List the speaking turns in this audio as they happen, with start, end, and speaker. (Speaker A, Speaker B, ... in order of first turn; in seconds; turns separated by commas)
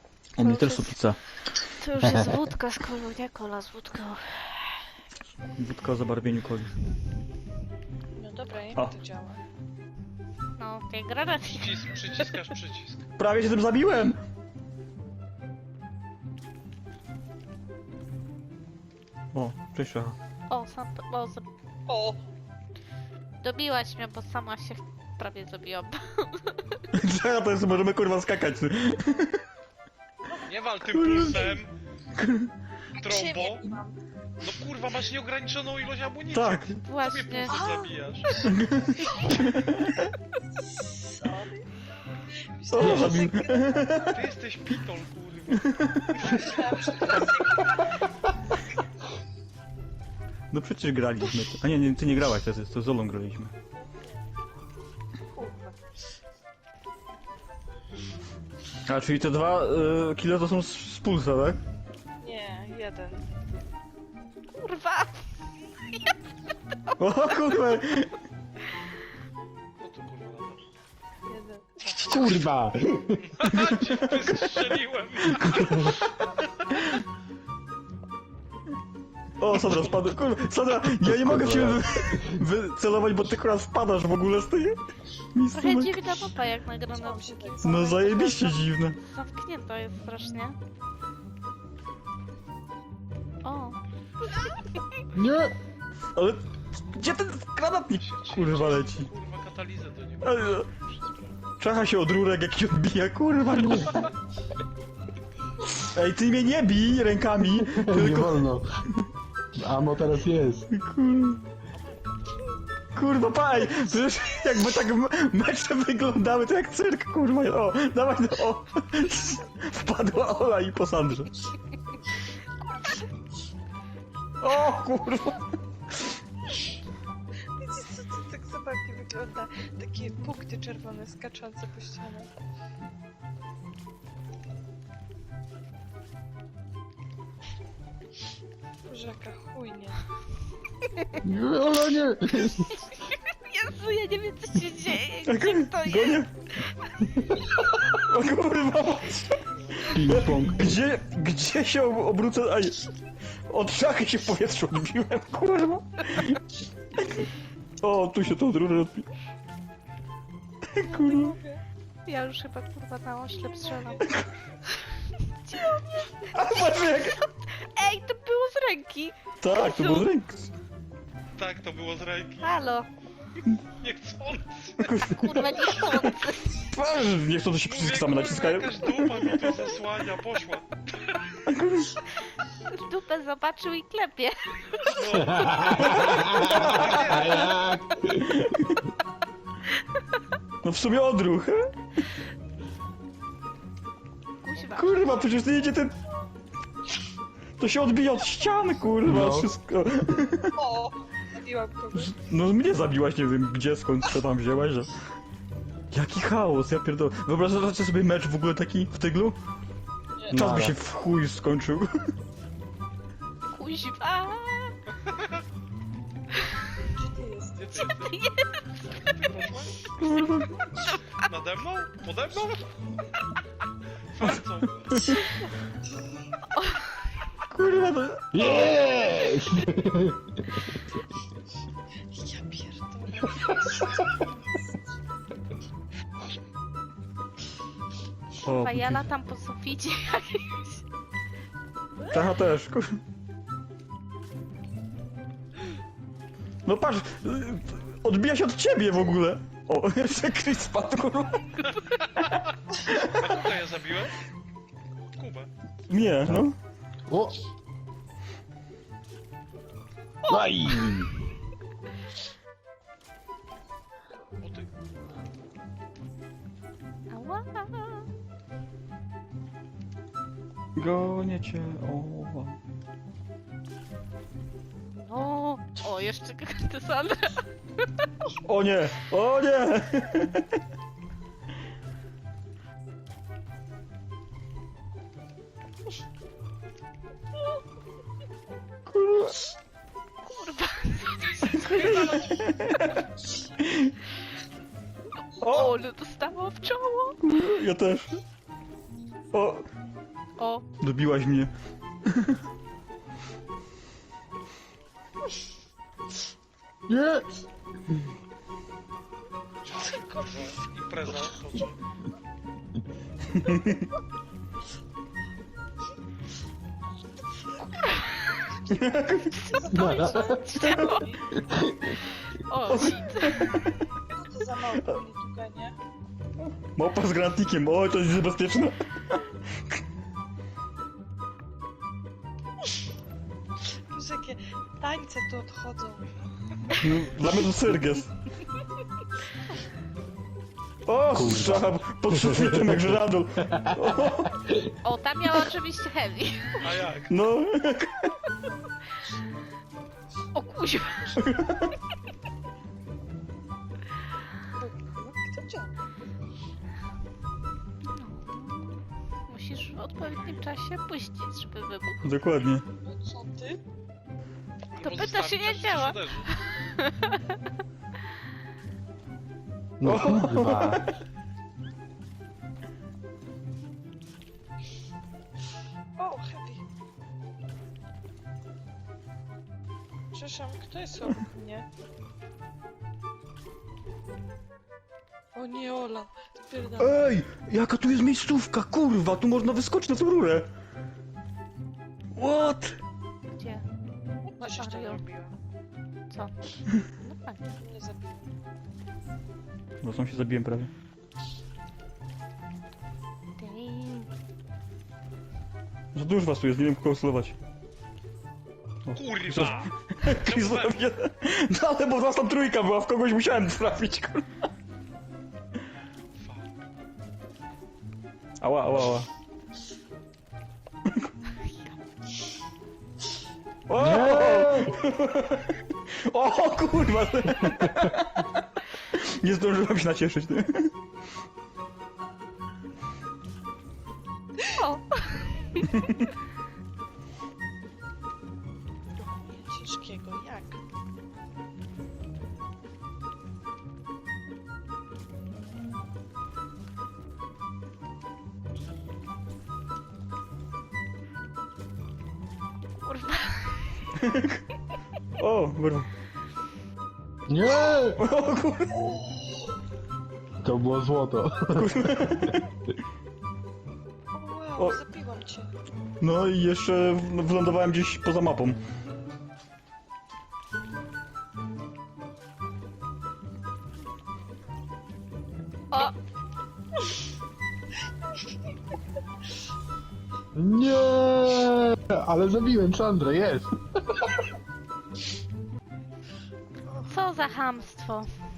Speaker A: 0.4-1.2, Speaker B: 0.4-1.0, Speaker B: 1.6-4.8, Speaker A: 5.6-6.7, Speaker C: 8.1-9.4, Speaker B: 10.6-11.8, Speaker D: 11.5-13.1, Speaker A: 13.2-14.2, Speaker A: 19.3-20.1, Speaker B: 20.5-21.4, Speaker C: 21.9-22.2, Speaker B: 23.4-26.8, Speaker A: 26.9-29.4, Speaker D: 30.4-31.7, Speaker A: 30.9-31.6, Speaker C: 31.2-31.4, Speaker A: 32.1-32.5, Speaker C: 33.0-34.0, Speaker D: 33.0-33.7, Speaker D: 34.4-38.5, Speaker A: 36.3-36.8, Speaker B: 36.8-37.6, Speaker C: 37.5-39.3, Speaker A: 38.5-40.1, Speaker C: 41.0-41.7, Speaker C: 42.2-43.8, Speaker A: 42.7-44.2, Speaker E: 42.8-43.2, Speaker D: 44.0-47.2, Speaker A: 45.5-46.2, Speaker C: 46.2-47.9, Speaker A: 50.5-53.5, Speaker C: 53.8-54.2, Speaker C: 55.3-55.8, Speaker A: 58.9-61.6, Speaker C: 62.2-63.2, Speaker B: 64.5-65.2, Speaker A: 67.0-68.1, Speaker D: 69.8-70.6, Speaker C: 71.3-71.7, Speaker D: 71.8-72.4, Speaker E: 72.0-73.3, Speaker D: 73.3-76.8, Speaker A: 73.5-76.2, Speaker E: 75.6-76.0, Speaker A: 79.4-84.8, Speaker D: 79.7-79.9, Speaker E: 81.0-82.4, Speaker A: 85.3-86.0, Speaker B: 85.5-88.4, Speaker C: 86.9-88.5, Speaker A: 87.6-89.0, Speaker B: 89.0-90.6, Speaker B: 93.4-93.8, Speaker B: 94.3-94.8, Speaker E: 95.1-95.5, Speaker A: 96.1-99.1, Speaker D: 98.0-101.4, Speaker A: 100.2-100.7, Speaker A: 101.6-104.0, Speaker A: 105.9-109.0, Speaker E: 107.6-108.7, Speaker E: 109.5-110.7, Speaker A: 110.7-111.4, Speaker D: 111.7-112.0, Speaker A: 112.9-121.3, Speaker A: 124.4-125.4, Speaker C: 127.6-132.3, Speaker C: 138.9-140.0, Speaker E: 141.2-142.8, Speaker B: 142.8-146.2, Speaker A: 145.3-146.3, Speaker A: 148.0-152.8, Speaker E: 149.9-150.8, Speaker A: 153.5-156.4, Speaker A: 157.0-157.2, Speaker A: 157.8-159.1, Speaker A: 160.8-161.4, Speaker C: 160.9-161.6, Speaker B: 162.1-164.0, Speaker C: 163.4-164.0, Speaker B: 165.5-165.8, Speaker A: 166.3-167.2, Speaker B: 167.5-170.1, Speaker A: 169.4-170.5, Speaker D: 171.4-172.6, Speaker B: 172.4-172.9, Speaker D: 173.8-174.9, Speaker A: 174.8-176.0, Speaker B: 174.9-176.7, Speaker A: 176.6-179.5, Speaker D: 177.6-181.4, Speaker A: 181.5-181.9, Speaker B: 182.7-184.8, Speaker D: 184.8-187.7, Speaker E: 185.2-188.4, Speaker A: 185.9-186.7, Speaker A: 190.6-191.7, Speaker B: 194.4-195.1, Speaker A: 194.6-195.9, Speaker A: 197.6-200.6, Speaker E: 199.0-199.6, Speaker C: 200.4-202.1, Speaker A: 201.9-204.9, Speaker A: 205.9-209.4, Speaker E: 210.3-210.8, Speaker A: 210.3-212.1, Speaker B: 213.5-214.8, Speaker D: 215.0-215.4, Speaker C: 216.9-217.7, Speaker D: 217.5-218.2, Speaker B: 217.7-219.1, Speaker D: 218.8-219.8, Speaker A: 220.0-220.6, Speaker B: 220.2-221.2, Speaker D: 221.2-222.7, Speaker D: 224.1-225.0, Speaker B: 226.5-226.9, Speaker A: 227.5-228.8, Speaker E: 228.3-230.6, Speaker C: 232.1-234.6, Speaker A: 238.4-239.0, Speaker B: 238.5-240.8, Speaker A: 242.1-243.0, Speaker A: 246.6-251.6, Speaker D: 251.7-254.2, Speaker D: 255.2-255.5, Speaker A: 255.9-256.6, Speaker E: 257.1-257.4, Speaker E: 260.3-261.2, Speaker D: 264.4-264.7, Speaker B: 267.1-268.1, Speaker A: 270.8-272.6, Speaker B: 274.9-278.0, Speaker A: 278.4-280.4, Speaker A: 288.9-289.4, Speaker B: 290.2-292.3, Speaker A: 291.5-293.0, Speaker A: 293.6-293.9, Speaker B: 295.3-297.2, Speaker A: 295.4-295.8, Speaker A: 297.2-298.2, Speaker A: 299.3-299.6, Speaker B: 300.4-300.6, Speaker A: 300.8-301.5, Speaker A: 302.1-302.4, Speaker E: 306.9-307.3, Speaker D: 309.7-311.8, Speaker A: 313.3-313.8, Speaker B: 317.9-318.4, Speaker C: 318.7-321.4, Speaker A: 318.7-319.4, Speaker B: 319.3-321.1, Speaker E: 319.7-320.5, Speaker E: 321.3-321.9, Speaker B: 322.3-323.6, Speaker A: 322.7-323.6, Speaker C: 324.1-325.8, Speaker A: 326.4-329.3, Speaker C: 333.9-336.8, Speaker A: 336.8-338.1, Speaker A: 340.9-344.3, Speaker E: 341.1-343.8, Speaker B: 344.8-346.7, Speaker D: 346.6-347.1, Speaker A: 347.1-348.1, Speaker B: 350.3-351.2, Speaker A: 351.2-351.7, Speaker C: 354.6-355.7, Speaker B: 357.8-362.2, Speaker D: 360.0-360.4, Speaker A: 362.0-362.6, Speaker C: 362.8-363.6, Speaker D: 364.7-366.3, Speaker B: 364.8-367.3, Speaker E: 369.8-370.9, Speaker A: 369.8-370.8, Speaker C: 376.0-376.6, Speaker C: 380.1-381.7, Speaker C: 385.3-386.9, Speaker A: 386.8-390.5, Speaker A: 392.1-392.8, Speaker B: 393.3-393.6, Speaker C: 394.2-395.3, Speaker B: 394.4-395.0, Speaker B: 396.9-397.4, Speaker C: 397.6-398.2, Speaker A: 399.8-400.7, Speaker B: 403.4-404.1, Speaker A: 405.9-407.3, Speaker A: 408.9-414.2, Speaker D: 408.9-410.8, Speaker D: 416.2-416.5, Speaker A: 418.4-419.1, Speaker B: 421.4-421.8, Speaker A: 423.7-428.3, Speaker E: 423.8-424.8, Speaker A: 428.9-430.7, Speaker B: 434.5-435.8, Speaker C: 439.0-440.6, Speaker B: 452.8-453.8, Speaker A: 454.0-454.4, Speaker A: 455.2-455.9, Speaker E: 457.3-458.0, Speaker A: 458.0-459.0, Speaker E: 460.4-461.8, Speaker A: 461.5-462.4, Speaker C: 464.1-465.5, Speaker A: 466.0-468.6, Speaker E: 480.3-484.1, Speaker C: 486.6-487.6, Speaker B: 486.9-488.1